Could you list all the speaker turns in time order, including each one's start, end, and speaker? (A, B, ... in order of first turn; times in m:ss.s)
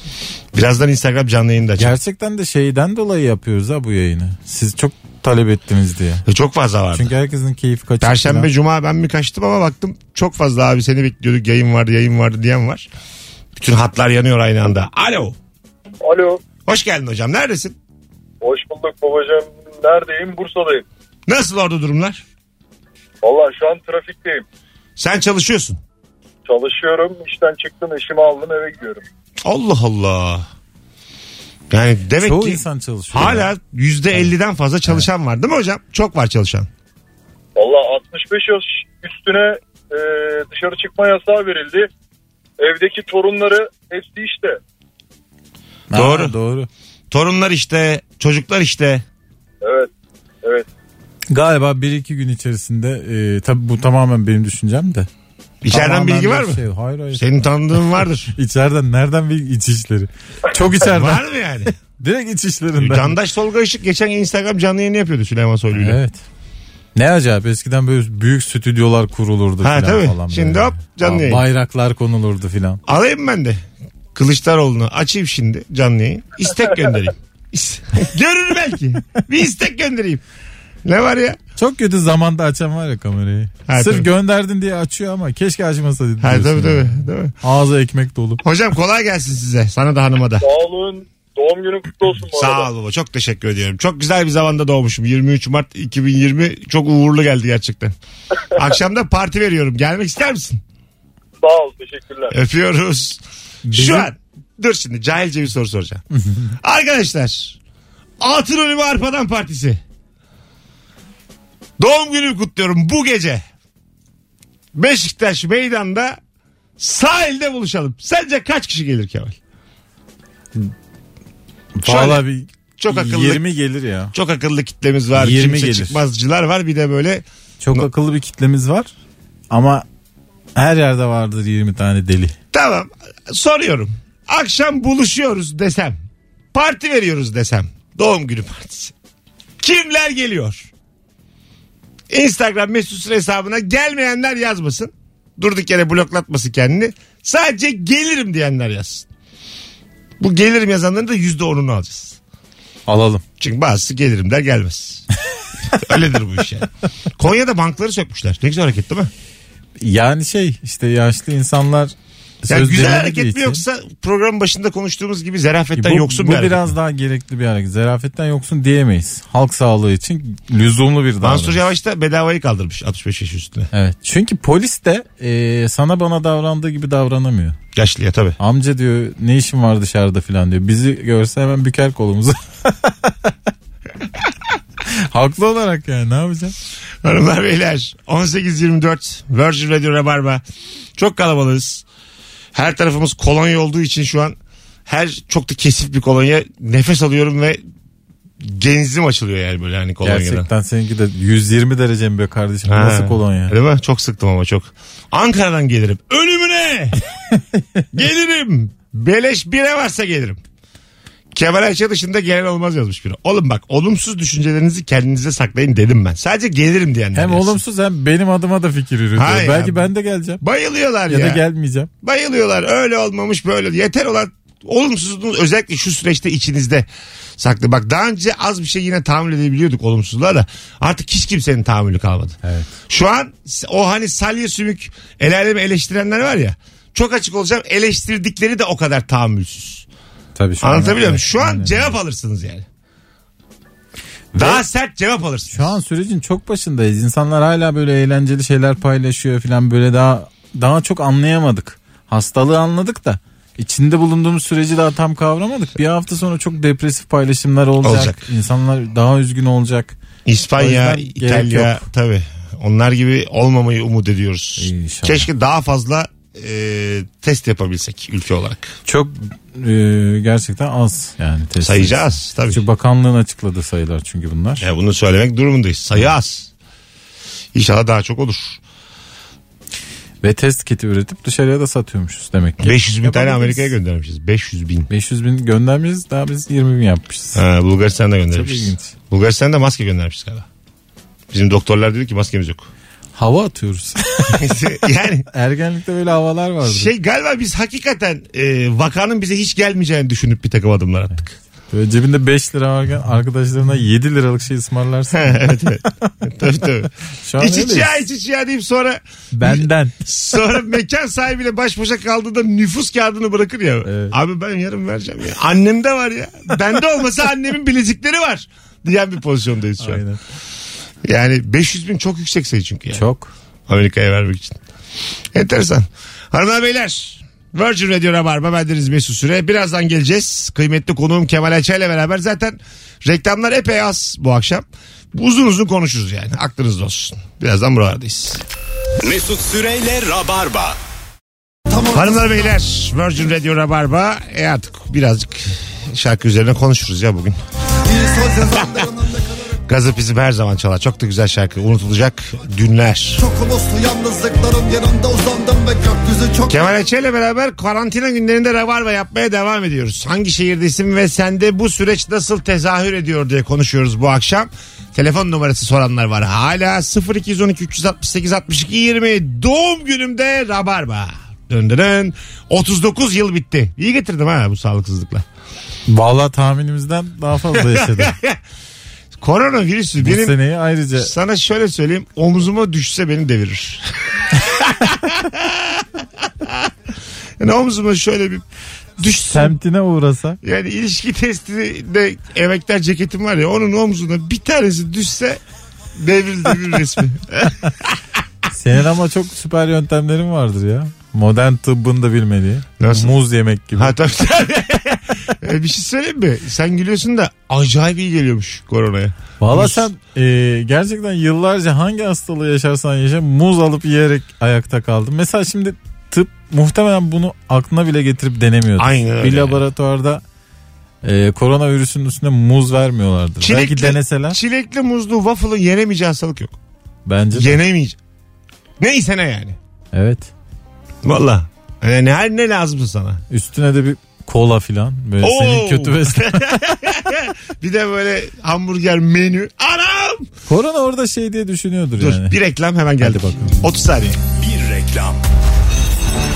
0:00.5-0:02.0 A
0:01.8-0:06.2 B
0:06.3-0:07.1 A
0:06.9-0:08.5 B
0:08.0-0:12.9 A
0:13.6-0:15.4 A
0:16.0-0:16.4 C
0:16.7-0:17.8 A
0:18.4-0:20.8 C
0:21.3-0:22.2 A
0:23.2-0:24.4 C
0:25.0-0:25.8 A
0:26.5-0:29.0 C
0:29.4-0:30.5 A
0:31.7-0:36.7 A
0:32.2-0:33.5 B
0:37.6-0:41.9 C
0:42.6-0:44.6 C
0:45.9-0:46.7 B
0:45.9-0:46.4 A
0:47.1-0:49.0 A
0:49.6-0:49.9 C
0:51.3-0:55.1 B
0:55.6-0:56.6 A
0:55.7-0:57.5 B
0:57.1-0:58.3 A
0:58.4-1:01.2 B
1:00.8-1:01.8 A
1:01.9-1:03.2 B
1:02.8-1:06.0 A
1:05.7-1:06.2 B
1:07.0-1:12.8 B
1:09.6-1:11.4 A
1:12.9-1:13.6 A
1:14.2-1:20.2 A
1:20.8-1:21.4 A
1:21.6-1:28.4 B
1:23.7-1:24.1 A
1:26.2-1:27.3 A
1:28.4-1:30.5 A
1:30.4-1:32.7 C
1:32.3-1:37.9 A
1:38.5-1:40.6 A
1:41.4-1:42.4 C
1:42.3-1:46.0 A
1:43.7-1:44.1 B
1:46.2-1:46.5 B
1:46.6-1:47.6 A
1:48.2-1:49.8 A
1:51.8-1:53.4 A
1:54.7-1:56.2 A
1:56.8-1:59.4 A
2:01.8-2:04.1 B
2:01.8-2:02.2 A
2:02.8-2:03.4 A
2:04.1-2:07.9 A
2:05.2-2:06.0 B
2:07.6-2:08.9 B
2:09.5-2:09.8 B
2:10.6-2:12.4 B
2:12.5-2:16.0 A
2:16.5-2:18.9 A
2:19.6-2:20.7 A
2:22.1-2:29.1 A
2:30.2-2:32.2 A
2:32.9-2:33.2 B
2:33.4-2:35.1 A
2:35.7-2:39.1 A
2:39.8-2:43.6 B
2:42.5-2:46.7 A
2:45.8-2:51.6 B
2:51.2-2:53.7 A
2:53.7-2:57.6 B
2:57.8-2:58.4 A
2:58.4-3:03.3 B
3:04.9-3:06.6 B
3:07.0-3:10.4 A
3:11.0-3:11.8 A
3:12.5-3:17.6 A
3:18.4-3:20.5 A
3:20.0-3:23.5 B
3:22.6-3:27.0 A
3:27.9-3:30.4 A
3:31.3-3:37.6 A
3:37.2-3:40.4 B
3:39.2-3:39.9 A
3:40.4-3:41.4 A
3:41.1-3:41.9 B
3:42.0-3:46.9 A
3:47.4-3:52.4 A
3:52.4-3:52.7 B
3:52.9-3:59.9 A
4:00.4-4:01.9 B
4:00.6-4:02.6 A
4:04.3-4:05.7 A
4:05.5-4:20.0 B
4:17.8-4:18.2 A
4:20.3-4:28.7 A
4:20.6-4:21.8 B
4:24.6-4:25.3 B
4:28.9-4:34.6 B
4:31.6-4:32.6 A
4:34.6-4:36.5 A
4:37.5-4:38.6 A
4:40.2-4:43.7 B
4:42.6-4:44.9 A
4:44.9-4:47.4 B
4:47.4-4:50.5 A
4:48.3-4:48.9 B
4:51.3-4:52.7 A
4:53.2-4:54.6 B
4:54.3-4:55.3 A
4:55.3-4:56.9 B
4:56.6-5:01.3 A
5:01.7-5:05.9 B
5:05.1-5:20.0 A
5:07.2-5:08.0 B
5:09.3-5:10.0 B
5:13.8-5:14.1 B
5:19.8-5:20.2 B
5:21.0-5:23.1 A
5:22.9-5:23.3 B
5:23.7-5:24.6 A
5:25.3-5:38.4 A
5:39.0-5:40.8 D
5:41.7-5:42.5 E
5:41.9-5:47.4 A
5:47.9-5:49.5 E
5:49.7-5:53.2 A
5:53.2-5:56.8 E
5:56.5-6:15.2 A
6:15.9-6:18.2 B
6:17.5-6:18.4 A
6:19.2-6:20.4 A
6:20.0-6:21.1 B
6:21.0-6:25.8 A
6:26.4-6:26.7 A
6:27.4-6:28.4 A
6:29.0-6:29.6 A
6:29.1-6:30.4 B
6:30.4-6:35.4 A
6:36.0-6:38.0 A
6:38.5-6:44.0 B
6:42.8-6:43.1 A
6:43.8-6:49.8 A
6:49.4-7:00.2 B
6:58.8-6:59.6 A
7:01.0-7:04.4 B
7:03.4-7:06.6 A
7:07.1-7:07.6 B
7:07.3-7:08.0 A
7:08.8-7:09.6 A
7:09.9-7:10.3 B
7:11.0-7:13.2 A
7:13.3-7:16.8 B
7:15.2-7:20.3 A
7:20.5-7:22.4 B
7:22.0-7:24.2 A
7:23.0-7:23.6 B
7:24.3-7:25.2 D